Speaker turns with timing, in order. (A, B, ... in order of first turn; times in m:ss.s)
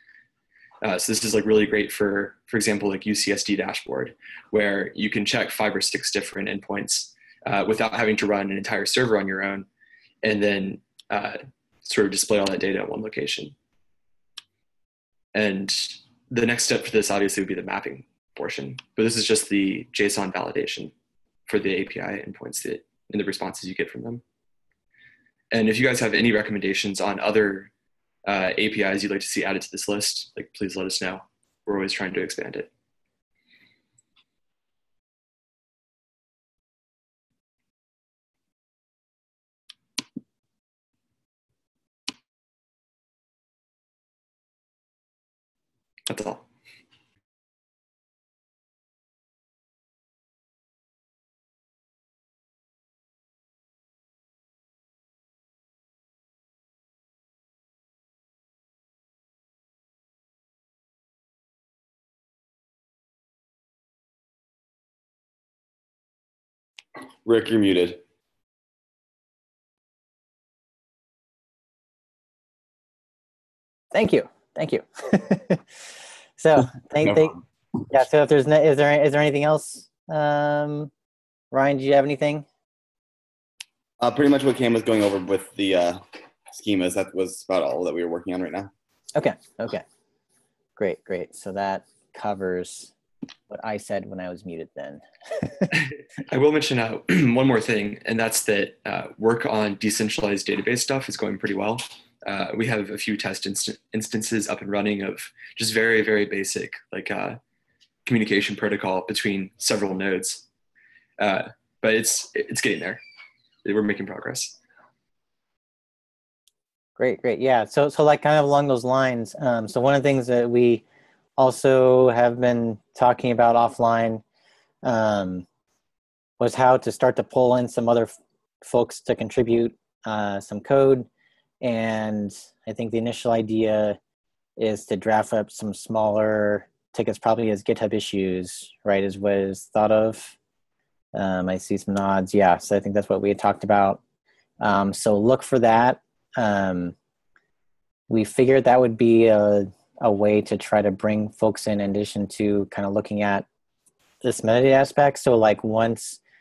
0:00.8-0:09.7 A
0:10.2-0:13.6 A
0:15.3-0:20.9 A
0:21.5-0:24.2 A
0:25.5-0:27.7 A
0:28.3-0:32.7 A
0:46.1-0:46.5 A
1:07.2-1:08.0 B
1:13.9-1:15.6 C
1:16.4-1:17.4 C
1:17.0-1:17.4 B
1:17.9-1:20.9 C
1:21.5-1:22.5 C
1:24.0-1:28.7 B
1:29.2-1:29.8 C
1:30.8-1:32.9 C
1:33.5-1:35.7 C
1:35.7-1:47.4 A
1:48.1-1:50.4 A
1:51.2-1:53.0 A
1:53.6-1:54.6 A
1:57.0-2:00.8 C
2:01.4-2:04.2 C
2:04.8-2:05.5 C
2:06.4-2:11.1 C
2:11.6-2:14.0 C
2:14.6-2:20.4 C
2:21.1-2:24.0 C
2:24.6-2:27.0 C
2:28.1-2:33.5 C
2:34.2-2:36.2 C